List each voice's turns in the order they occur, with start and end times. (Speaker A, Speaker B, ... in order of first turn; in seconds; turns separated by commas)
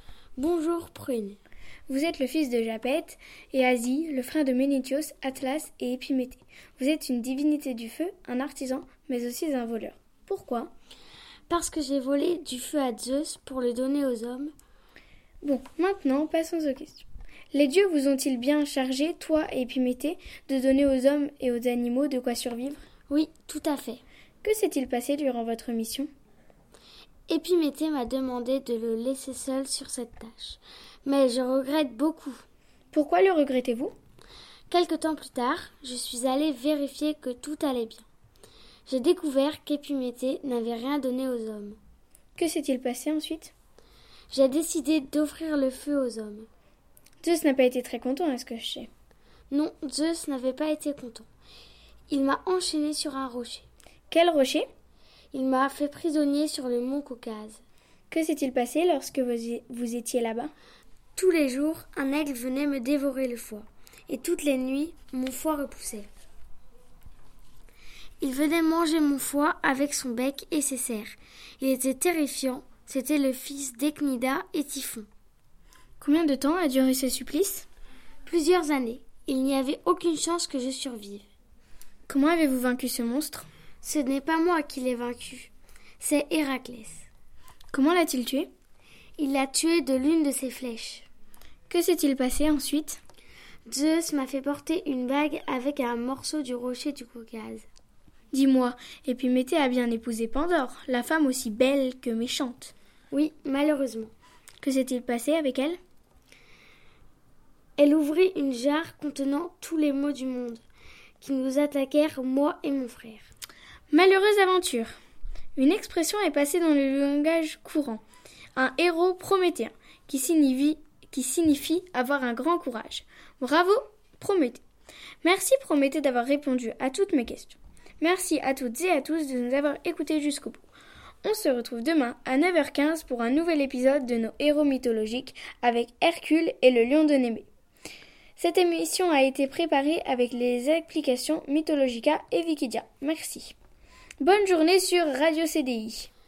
Speaker A: 0.4-1.4, Speaker B: 1.9-10.7, Speaker A: 11.5-14.5, Speaker B: 15.4-22.8, Speaker A: 23.1-24.0, Speaker B: 24.4-26.1, Speaker A: 27.3-32.5, Speaker B: 32.9-33.9, Speaker A: 34.7-38.1, Speaker A: 38.9-41.8, Speaker B: 42.4-43.5, Speaker A: 44.3-46.5, Speaker B: 47.2-48.9, Speaker A: 49.5-51.3, Speaker A: 52.1-53.7, Speaker B: 54.1-54.7, Speaker A: 55.3-57.6, Speaker B: 58.1-60.5, Speaker A: 61.2-66.1, Speaker A: 68.2-75.1, Speaker B: 76.0-77.7, Speaker A: 78.3-81.3, Speaker B: 82.1-83.5, Speaker A: 83.8-87.1, Speaker B: 87.7-88.5, Speaker A: 89.2-91.1, Speaker B: 91.7-93.0, Speaker A: 93.7-97.7, Speaker B: 98.3-102.7, Speaker A: 103.1-104.1, Speaker B: 104.6-105.8, Speaker A: 107.8-110.6, Speaker A: 111.2-113.3, Speaker B: 113.9-115.0, Speaker B: 115.6-118.0, Speaker B: 118.6-124.6, Speaker B: 125.2-130.6, Speaker B: 131.2-137.5, Speaker B: 138.4-143.6, Speaker B: 144.2-146.1